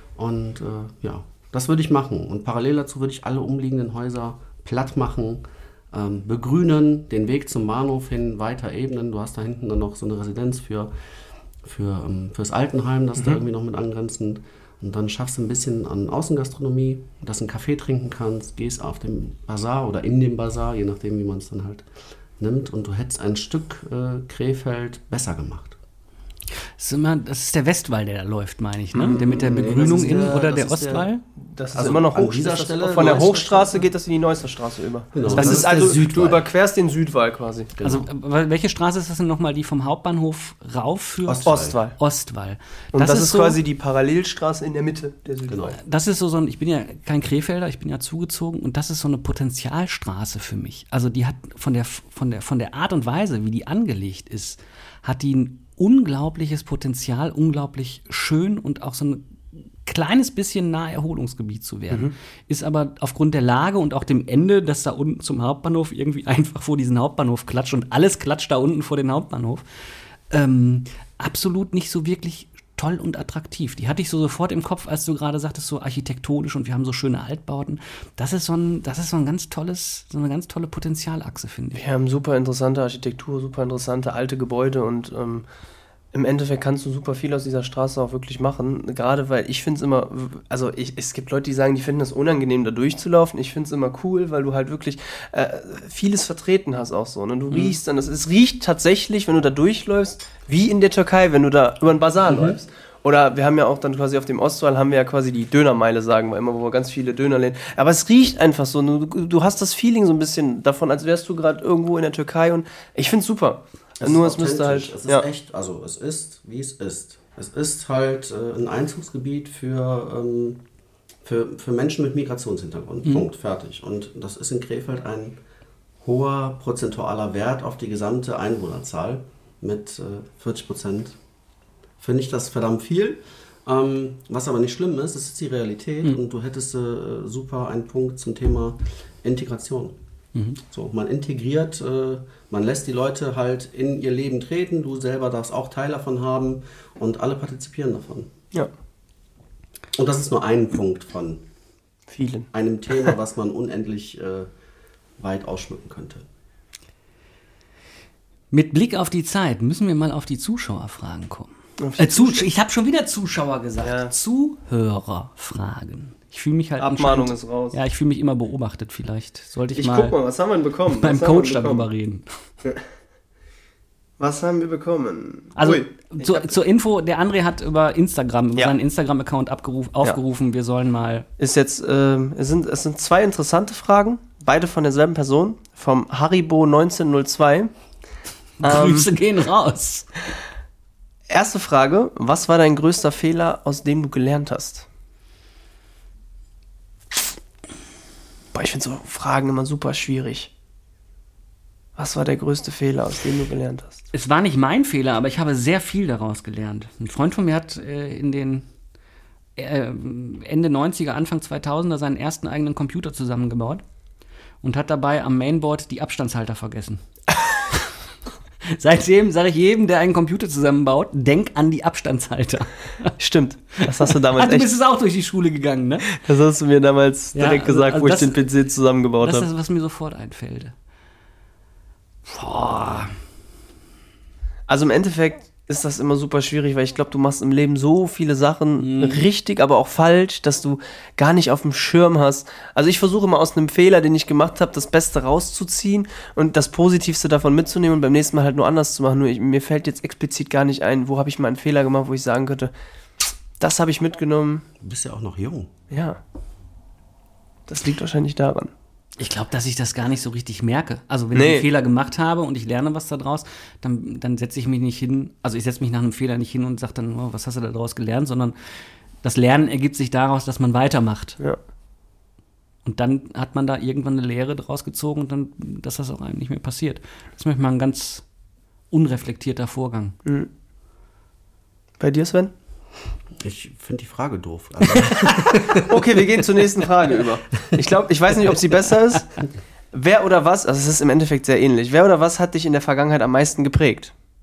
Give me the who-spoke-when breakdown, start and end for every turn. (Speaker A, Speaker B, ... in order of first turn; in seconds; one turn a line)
Speaker A: 0.1-10.9
Speaker A: 11.6-21.9
Speaker A: 22.4-25.8
Speaker B: 26.8-31.2
Speaker A: 28.9-31.1
Speaker C: 31.5-37.7
Speaker A: 31.7-33.9
Speaker A: 35.1-36.5
Speaker B: 35.2-36.0
Speaker A: 37.7-38.1
Speaker B: 37.8-41.5
Speaker A: 41.2-41.8
Speaker C: 41.5-42.0
Speaker B: 42.0-43.6
Speaker C: 42.9-45.8
Speaker B: 45.7-69.6
Speaker B: 70.3-81.8
Speaker C: 81.7-85.5
Speaker C: 86.1-115.2
Speaker B: 97.5-97.8
Speaker A: 102.3-102.6
Speaker A: 114.0-120.6
Speaker A: 121.2-125.4
Speaker A: 126.0-131.2
Speaker A: 132.0-140.0
Speaker A: 140.6-148.3
Speaker A: 149.9-151.4
Speaker C: 152.1-152.5
Speaker A: 152.5-154.5
Speaker A: 155.2-156.2
Speaker B: 158.5-170.2
Speaker C: 161.8-162.5
Speaker C: 163.8-164.1
Speaker C: 166.8-167.8
Speaker C: 169.8-171.8
Speaker B: 170.9-172.2
Speaker C: 174.2-176.5
Speaker B: 175.6-181.2
Speaker C: 181.4-187.7
Speaker C: 188.6-189.1
Speaker B: 188.6-190.1
Speaker C: 191.3-194.9
Speaker C: 198.5-200.5
Speaker C: 201.9-204.0
Speaker B: 204.1-208.7
Speaker B: 209.6-213.8
Speaker B: 214.6-217.0
Speaker B: 218.8-223.1
Speaker C: 223.2-224.7
Speaker B: 223.8-226.2
Speaker C: 226.1-229.4
Speaker B: 227.3-228.4
Speaker B: 229.2-230.7
Speaker B: 232.2-233.1
Speaker C: 234.7-252.7
Speaker B: 238.8-239.2
Speaker C: 253.6-254.6
Speaker A: 254.8-255.7
Speaker C: 255.9-256.2
Speaker C: 257.7-258.7
Speaker B: 259.2-268.5
Speaker C: 261.3-261.7
Speaker B: 269.2-271.4
Speaker B: 272.8-278.2
Speaker B: 278.9-280.2
Speaker C: 282.0-282.5
Speaker A: 283.4-286.2
Speaker C: 285.2-294.1
Speaker B: 285.3-285.6